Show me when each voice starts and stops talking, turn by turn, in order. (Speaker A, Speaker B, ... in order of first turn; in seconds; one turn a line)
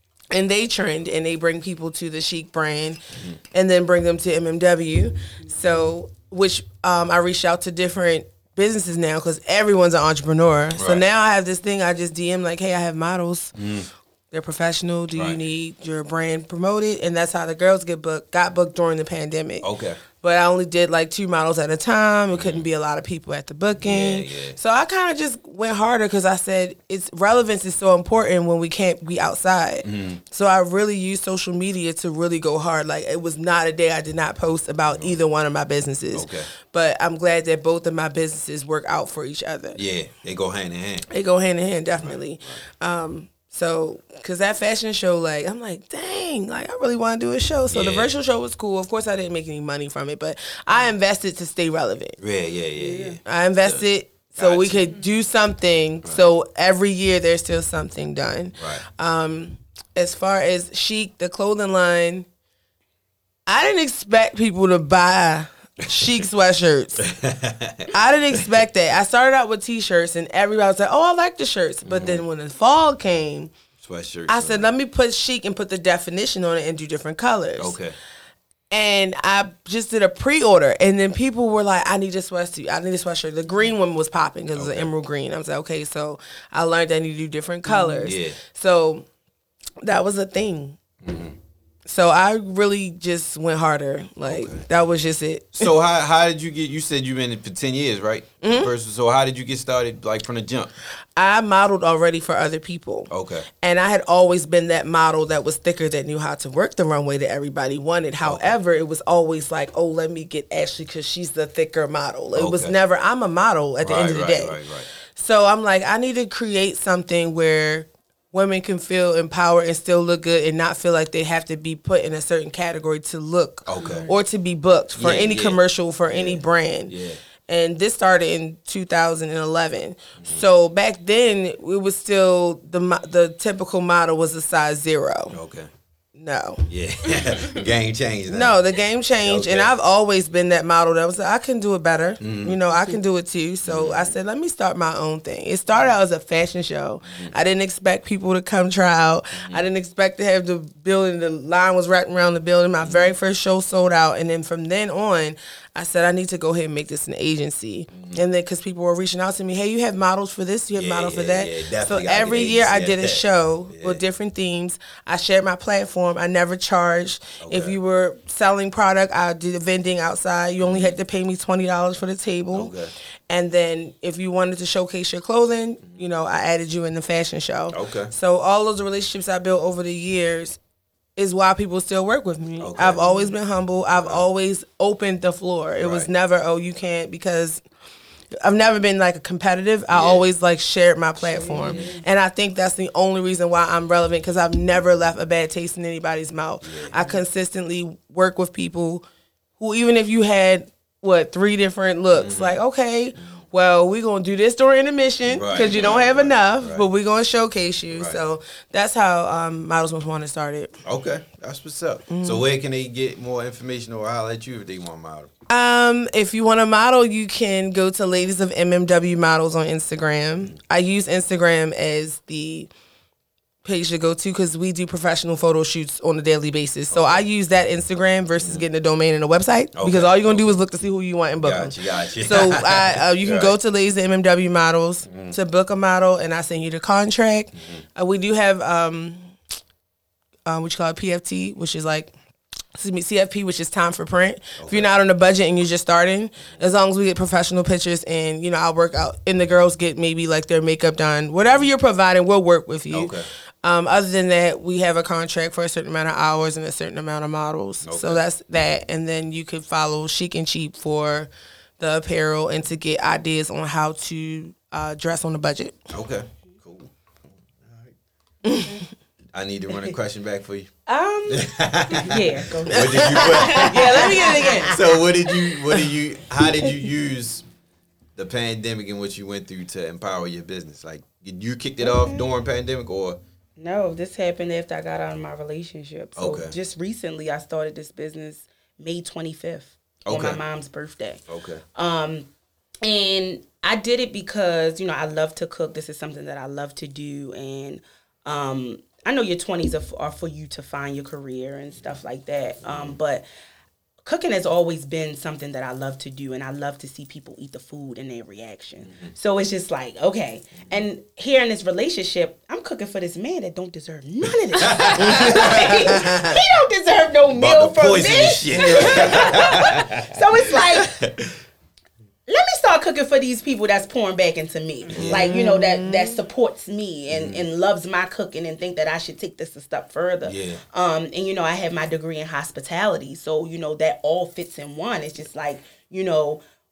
Speaker A: 0.3-13.7
Speaker B: 10.8-11.0
Speaker B: 13.6-13.9
Speaker A: 14.3-39.8
Speaker B: 19.6-20.0
Speaker B: 22.3-22.7
Speaker B: 23.8-24.6
Speaker B: 29.8-30.2
Speaker B: 34.9-35.2
Speaker B: 36.1-36.5
Speaker B: 39.8-41.1
Speaker A: 41.1-52.2
Speaker B: 42.0-42.6
Speaker B: 47.7-48.1
Speaker B: 52.2-53.9
Speaker C: 52.8-53.2
Speaker A: 53.2-62.3
Speaker B: 54.4-54.9
Speaker B: 58.6-58.8
Speaker A: 63.5-67.1
Speaker B: 67.0-67.9
Speaker A: 67.9-73.5
Speaker B: 71.8-72.2
Speaker B: 73.8-74.7
Speaker A: 74.3-77.8
Speaker B: 77.6-78.0
Speaker A: 78.7-89.1
Speaker B: 84.6-84.9
Speaker B: 87.7-88.4
Speaker A: 89.8-90.8
Speaker B: 91.0-91.4
Speaker A: 91.9-95.7
Speaker B: 94.2-94.7
Speaker B: 95.6-100.7
Speaker A: 98.4-98.7
Speaker A: 101.2-127.0
Speaker B: 103.1-103.5
Speaker B: 108.2-108.5
Speaker B: 112.4-112.7
Speaker B: 113.8-114.9
Speaker B: 123.7-124.1
Speaker C: 123.8-124.1
Speaker B: 125.0-127.2
Speaker A: 127.5-135.4
Speaker B: 135.3-135.7
Speaker A: 136.2-136.7
Speaker B: 136.7-138.6
Speaker A: 138.3-172.7
Speaker B: 139.2-139.7
Speaker B: 142.2-142.6
Speaker B: 143.7-144.1
Speaker B: 149.4-149.6
Speaker B: 152.8-153.1
Speaker B: 157.9-158.2
Speaker B: 160.7-164.0
Speaker B: 167.4-167.8
Speaker B: 170.6-171.0
Speaker B: 172.5-172.9
Speaker A: 173.3-180.6
Speaker B: 177.7-178.1
Speaker A: 181.2-187.6
Speaker B: 182.6-183.0
Speaker B: 183.9-184.2
Speaker B: 185.8-186.1
Speaker A: 188.4-199.1
Speaker B: 189.9-190.2
Speaker C: 191.2-192.0
Speaker B: 191.6-191.9
Speaker B: 196.7-196.9
Speaker A: 199.6-210.8
Speaker B: 202.1-202.6
Speaker B: 205.3-206.9
Speaker B: 207.9-208.2
Speaker B: 210.8-215.3
Speaker A: 212.1-212.4
Speaker A: 215.5-222.7
Speaker A: 223.6-239.3
Speaker B: 226.9-227.3
Speaker B: 229.8-230.6
Speaker B: 231.4-233.5
Speaker B: 235.1-235.3
Speaker B: 237.6-237.8
Speaker A: 240.5-242.1
Speaker A: 242.7-265.9
Speaker B: 244.6-244.9
Speaker B: 252.9-253.3
Speaker B: 257.8-258.2
Speaker B: 265.9-267.9
Speaker A: 268.4-268.8
Speaker B: 269.3-270.7
Speaker C: 270.9-274.8
Speaker B: 271.3-277.4
Speaker A: 272.7-274.8
Speaker B: 278.2-283.2
Speaker C: 281.8-282.3
Speaker C: 283.6-291.2
Speaker B: 286.2-286.6
Speaker B: 290.1-290.4
Speaker B: 291.3-291.6
Speaker C: 291.8-292.3
Speaker C: 292.8-303.2
Speaker B: 302.6-303.0
Speaker C: 304.1-321.0
Speaker B: 308.9-309.1
Speaker B: 314.5-316.4
Speaker A: 315.0-315.3
Speaker B: 317.3-321.4
Speaker A: 318.5-319.3
Speaker C: 322.3-336.4
Speaker B: 324.9-325.4
Speaker A: 325.1-326.2
Speaker B: 327.1-327.4
Speaker B: 330.2-330.6